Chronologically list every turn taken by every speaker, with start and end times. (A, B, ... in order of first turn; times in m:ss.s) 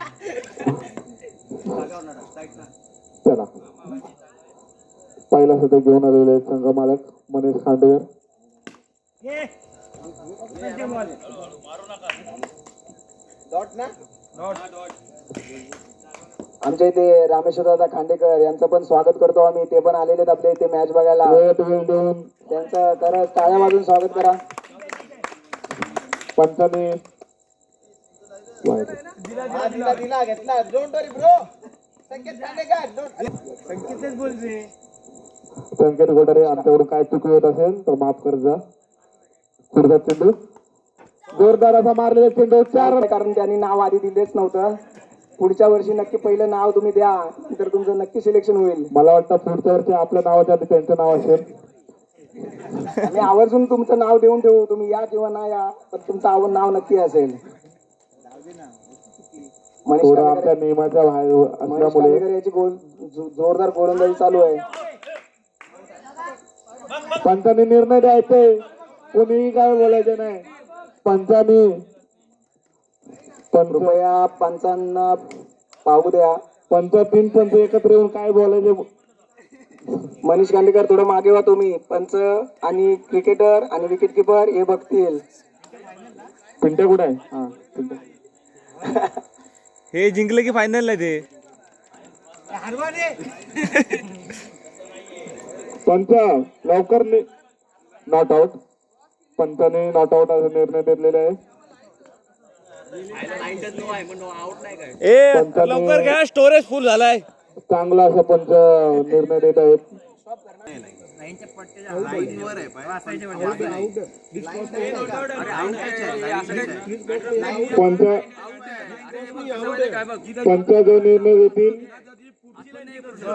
0:05.3-0:08.1 A
0:16.6-0:21.4 B
0:21.2-0:22.3 A
0:22.5-0:24.4 B
0:26.4-0:27.0 A
0:28.6-0:29.0 A
0:29.5-0:31.5 C
0:32.1-0:33.3 C
0:33.8-0:34.4 C
0:35.8-0:38.6 A
0:36.4-0:36.7 B
0:39.7-0:40.4 A
0:41.3-0:43.0 A
0:42.8-0:44.7 B
0:45.4-0:48.9 B
0:48.9-0:51.5 A
0:53.0-0:57.4 B
0:59.9-1:00.5 B
1:00.0-1:02.2 A
1:01.7-1:04.6 B
1:07.2-1:08.6 A
1:09.1-1:10.5 A
1:11.0-1:11.8 A
1:13.5-1:13.9 A
1:13.7-1:15.2 B
1:15.8-1:16.4 B
1:16.7-1:18.9 A
1:20.2-1:25.2 B
1:26.6-1:28.0 A
1:28.8-1:29.1 B
1:29.9-1:31.2 D
1:33.6-1:34.0 D
1:35.9-1:37.3 A
1:38.1-1:38.6 A
1:39.4-1:41.4 A
1:45.0-1:47.2 D
1:45.3-1:46.2 A
1:47.7-1:49.9 A
1:52.0-1:52.8 C
1:53.3-1:53.8 C
1:54.4-1:57.8 C
1:57.7-1:58.2 A
2:00.4-2:01.8 A